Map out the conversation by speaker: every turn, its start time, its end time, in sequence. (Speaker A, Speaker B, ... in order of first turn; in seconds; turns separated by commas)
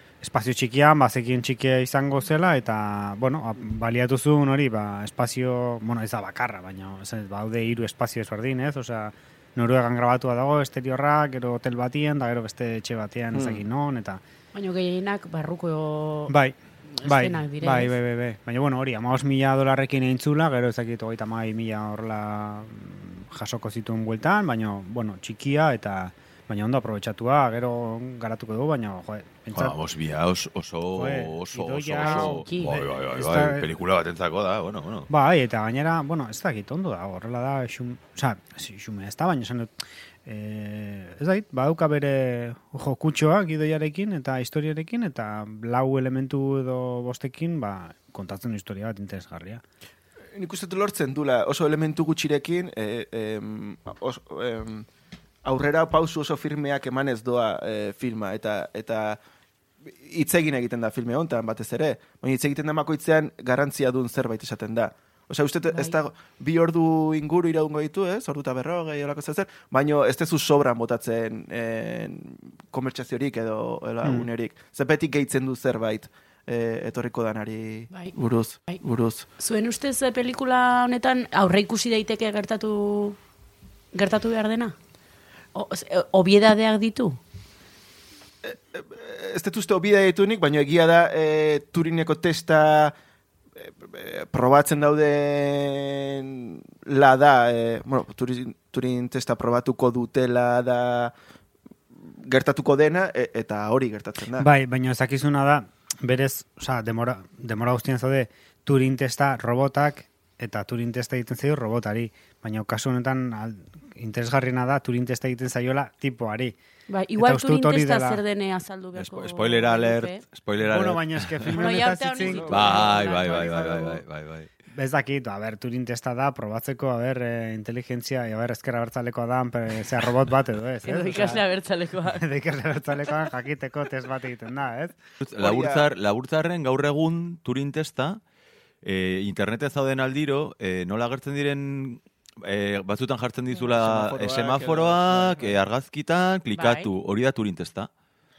Speaker A: 0.2-14.2, Speaker B: 13.3-13.6, Speaker C: 14.5-16.4, Speaker A: 16.3-29.8, Speaker C: 17.0-18.0, Speaker D: 29.5-35.1, Speaker A: 30.9-33.7, Speaker C: 32.0-32.8, Speaker A: 35.1-49.6, Speaker B: 50.4-54.9, Speaker B: 55.5-59.2, Speaker B: 59.8-79.3, Speaker C: 65.7-66.0, Speaker A: 74.0-74.3, Speaker C: 79.4-83.2, Speaker C: 83.9-84.8, Speaker C: 85.5-87.2, Speaker B: 88.4-93.0, Speaker B: 93.6-101.1, Speaker B: 102.0-104.5, Speaker A: 104.4-116.5, Speaker C: 116.9-120.2, Speaker A: 117.2-118.2, Speaker D: 119.0-121.6, Speaker A: 120.6-122.7, Speaker C: 121.5-124.0, Speaker B: 122.2-123.3, Speaker D: 122.5-124.5, Speaker A: 124.7-131.4, Speaker C: 130.8-132.3, Speaker A: 132.1-135.0, Speaker D: 135.2-138.2, Speaker B: 135.4-135.8, Speaker D: 138.8-147.9, Speaker B: 143.6-145.6, Speaker C: 146.6-146.9